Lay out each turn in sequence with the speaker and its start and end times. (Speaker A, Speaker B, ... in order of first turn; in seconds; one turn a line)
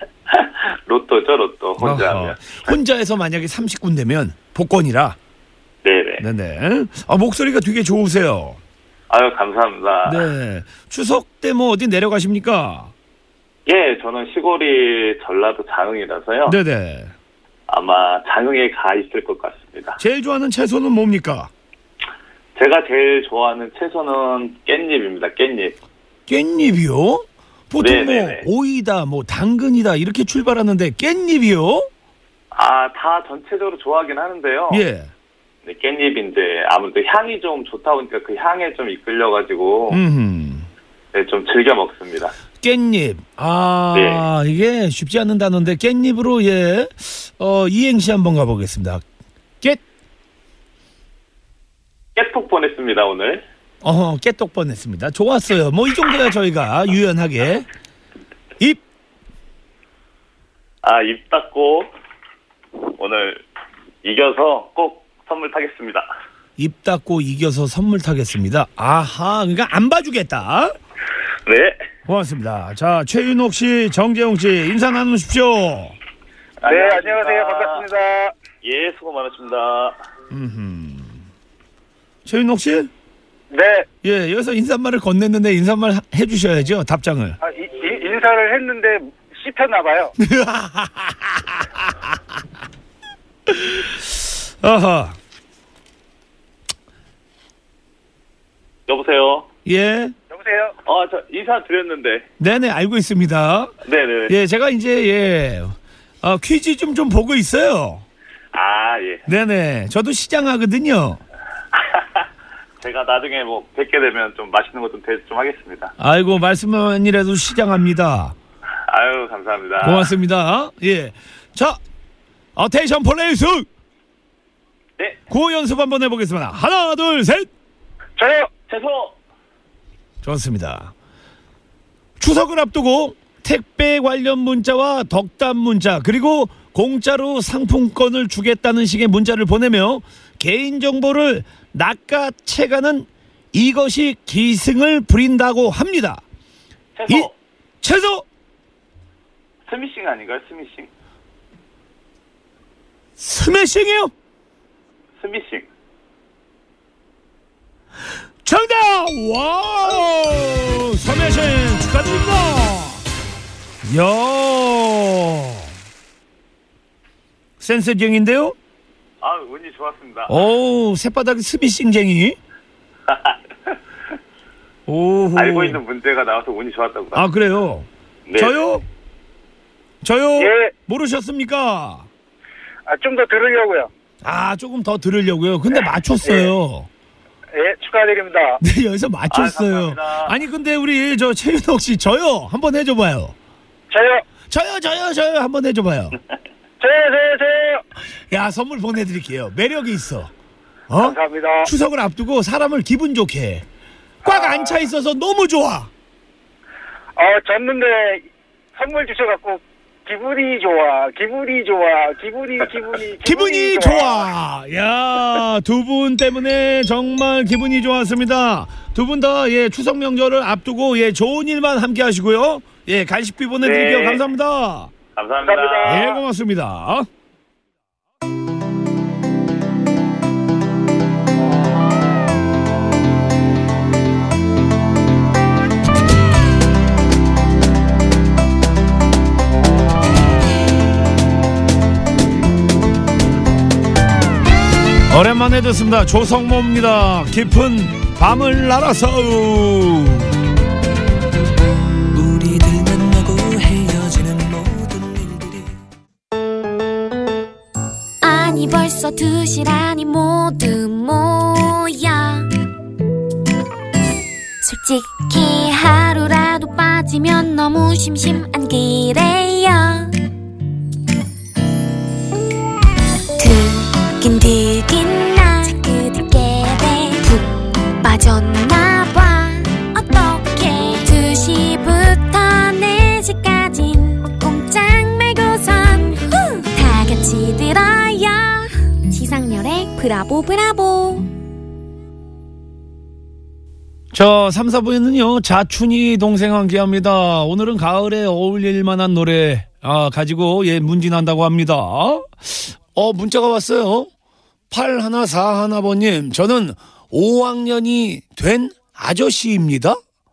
Speaker A: 0.3-2.7
Speaker B: 1.8-5.2
Speaker A: 5.8-6.2
Speaker B: 6.2-8.6
Speaker A: 9.1-10.3
Speaker B: 10.1-12.9
Speaker A: 13.7-16.6
Speaker B: 16.4-17.1
Speaker A: 17.7-20.0
Speaker B: 20.0-21.5
Speaker A: 22.6-25.7
Speaker B: 26.3-31.9
Speaker A: 27.8-28.4
Speaker A: 32.5-34.8
Speaker B: 34.7-35.1
Speaker A: 35.6-40.0
Speaker B: 39.9-40.7
Speaker A: 41.1-42.3
Speaker B: 42.6-49.0
Speaker A: 43.9-44.2
Speaker A: 52.1-53.4
Speaker B: 53.8-57.7
Speaker A: 60.8-61.9
Speaker A: 62.8-63.4
Speaker A: 64.0-66.1
Speaker B: 66.6-70.7
Speaker A: 71.5-71.8
Speaker B: 72.1-76.0
Speaker A: 76.6-77.8
Speaker C: 76.7-78.3
Speaker A: 78.6-80.0
Speaker B: 80.3-81.2
Speaker B: 82.2-82.9
Speaker C: 83.5-83.9
Speaker B: 84.0-87.4
Speaker C: 87.4-90.1
Speaker B: 90.2-92.0
Speaker B: 93.5-95.2
Speaker A: 98.9-99.5
Speaker B: 99.7-100.1
Speaker C: 100.3-100.7
Speaker A: 100.8-102.2
Speaker B: 102.4-103.7
Speaker A: 103.8-104.3
Speaker B: 104.3-108.0
Speaker A: 108.5-109.2
Speaker B: 109.3-111.2
Speaker A: 111.8-112.2
Speaker A: 112.8-115.9
Speaker B: 116.0-118.3
Speaker A: 118.9-120.1
Speaker B: 119.8-121.8
Speaker B: 122.5-123.7
Speaker B: 125.3-127.5
Speaker C: 128.2-128.5
Speaker A: 128.7-129.1
Speaker B: 130.2-130.9
Speaker B: 132.2-146.2
Speaker A: 146.9-147.3
Speaker B: 147.8-148.2
Speaker A: 149.7-150.9
Speaker B: 153.2-154.1
Speaker A: 155.2-155.7
Speaker B: 158.4-163.0
Speaker B: 163.8-165.7
Speaker B: 167.6-168.5
Speaker A: 169.2-170.3
Speaker B: 170.3-172.4
Speaker A: 173.1-173.8
Speaker B: 174.9-175.8
Speaker A: 175.3-177.2
Speaker B: 177.1-178.8
Speaker A: 178.3-178.5
Speaker B: 180.0-182.1
Speaker C: 180.4-180.7
Speaker C: 182.9-183.9
Speaker B: 184.2-186.9
Speaker C: 186.2-186.5
Speaker C: 187.5-188.6
Speaker B: 188.6-193.3
Speaker A: 189.3-190.3
Speaker C: 193.9-194.2
Speaker B: 194.5-196.2
Speaker C: 196.8-197.8
Speaker B: 198.3-200.3
Speaker B: 200.9-203.7
Speaker C: 201.0-201.7
Speaker C: 204.2-204.8
Speaker B: 204.2-205.9
Speaker C: 207.2-208.2
Speaker C: 208.8-214.3
Speaker B: 213.2-224.9
Speaker A: 223.6-224.2
Speaker A: 225.1-226.2
Speaker C: 225.4-226.2
Speaker B: 225.8-227.1
Speaker B: 245.1-250.3
Speaker D: 252.2-255.5
Speaker E: 258.2-262.5
Speaker E: 264.6-270.1
Speaker E: 273.4-277.5
Speaker E: 278.0-291.3
Speaker B: 294.1-304.1
Speaker B: 304.7-310.0